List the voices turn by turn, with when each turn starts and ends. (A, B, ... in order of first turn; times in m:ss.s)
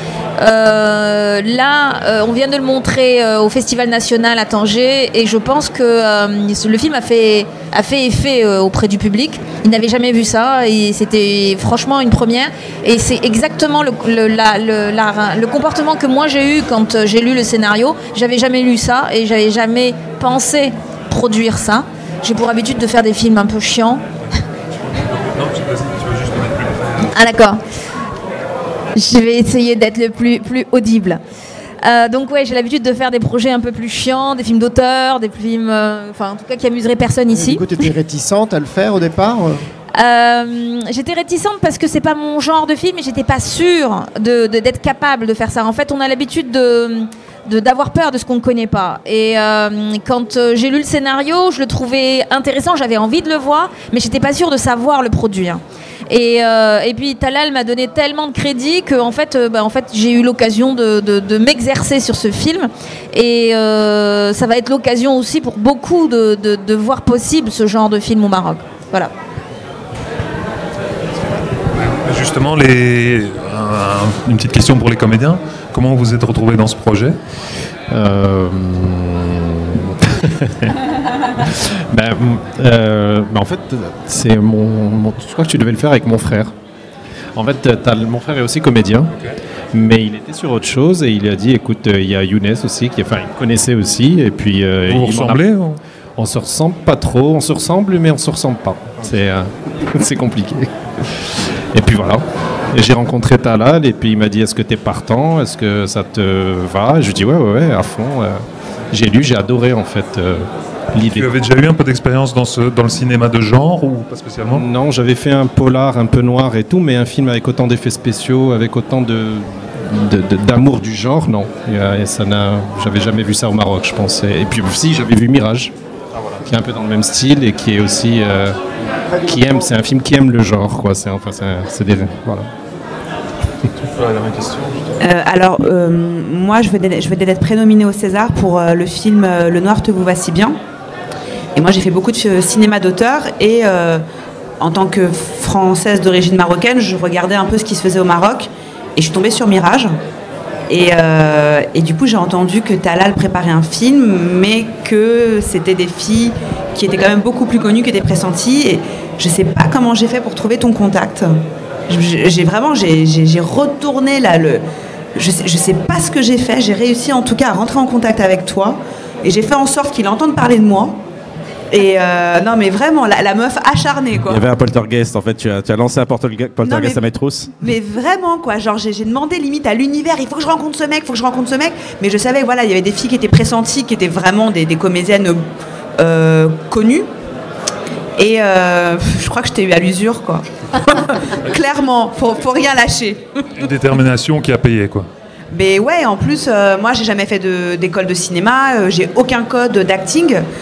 0:00.4-0:24.0 A
0:25.0-0:27.1 B
0:27.1-0:27.6 A
0:28.9-0:31.2 A
0:31.8-0:37.6 A
0:37.3-0:39.6 C
0:40.0-1:09.1 A
1:11.7-1:17.2 B
1:17.9-1:20.8 D
1:21.4-1:26.5 D
1:27.3-1:29.1 D
1:29.7-1:35.4 D
1:34.9-1:35.8 B
1:36.2-1:48.4 D
1:48.9-1:51.3 D
1:51.1-1:54.6 B
1:54.5-2:05.7 D
2:06.4-2:08.6 D
2:09.1-2:09.6 C
2:09.2-2:12.5 D
2:13.9-2:14.7 B
2:15.0-2:20.6 E
2:21.5-2:24.0 E
2:24.6-2:29.9 E
2:30.7-2:41.4 E
2:41.9-2:44.6 E
2:45.1-2:51.0 E
2:51.7-2:54.4 E
2:54.3-2:57.5 F
2:56.6-2:57.0 E
2:57.6-3:05.4 E
3:06.0-3:07.1 E
3:08.2-3:13.5 E
3:13.6-3:15.1 B
3:15.5-3:20.4 E